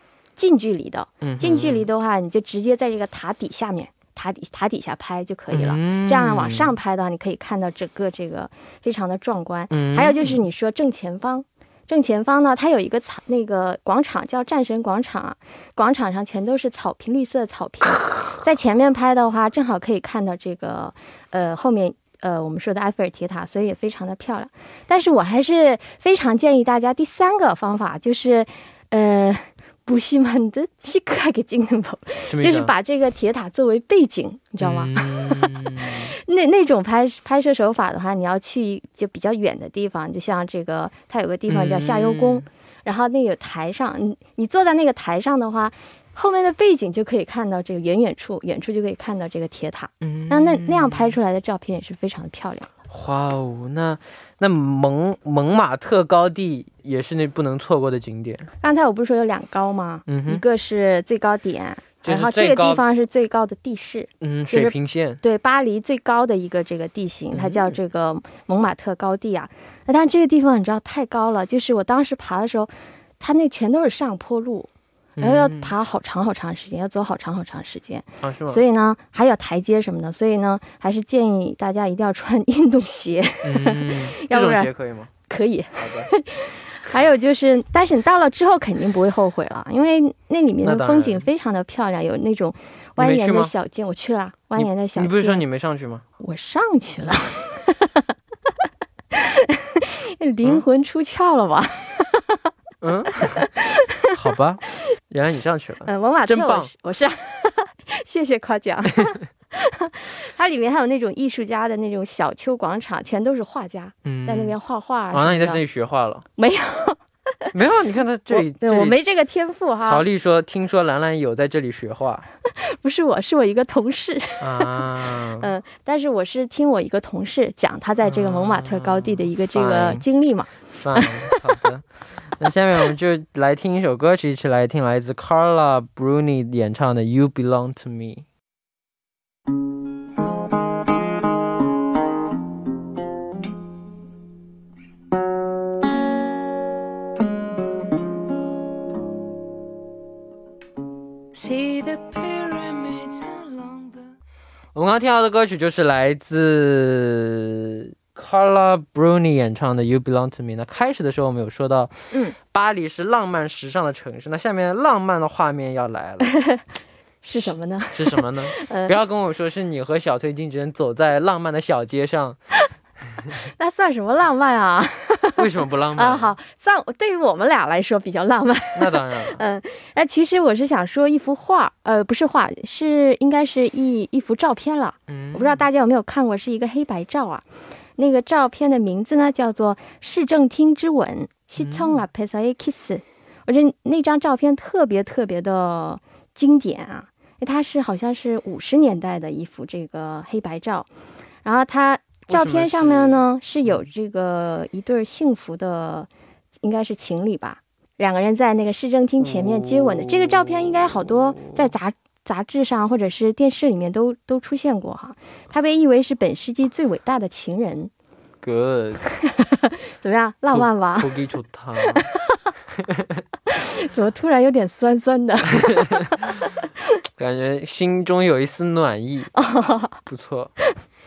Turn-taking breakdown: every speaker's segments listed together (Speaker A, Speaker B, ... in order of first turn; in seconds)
Speaker A: 0.4-52.7, 58.6-84.7, 85.3-95.4, 96.2-97.9, 99.1-102.4, 103.2-104.1, 105.9-115.6, 116.4-117.5, 118.3-120.0, 122.5-131.6, 166.2-166.6, 167.2-168.9, 173.4-187.4, 188.0-200.9, 201.4-206.1, 206.6-217.9, 219.2-221.1, 221.8-222.4, 223.5-226.5, 229.3-230.0
Speaker B: 1.2-1.9, 5.5-6.7, 9.7-10.4, 32.3-32.7, 34.6-36.1, 41.5-42.5, 50.0-51.1, 52.9-58.5, 60.1-60.4, 62.0-62.8, 64.2-65.2, 67.3-67.8, 75.2-75.7, 78.2-78.6, 83.4-85.1, 85.8-86.1, 90.6-91.3, 93.0-93.5, 94.6-96.0, 102.8-103.5, 104.1-106.7, 114.0-114.6, 115.1-116.2, 117.5-119.0, 119.8-122.3, 124.4-125.5, 128.0-130.0, 130.8-131.9, 132.4-138.2, 154.8-166.3, 167.9-172.4, 175.4-176.3, 178.8-179.4, 185.1-185.6, 191.6-192.0, 202.3-203.8, 209.2-211.7, 218.4-219.0, 220.5-222.1, 222.8-223.2, 225.6-226.0, 227.2-229.3, 230.1-230.5
Speaker C: 151.3-154.1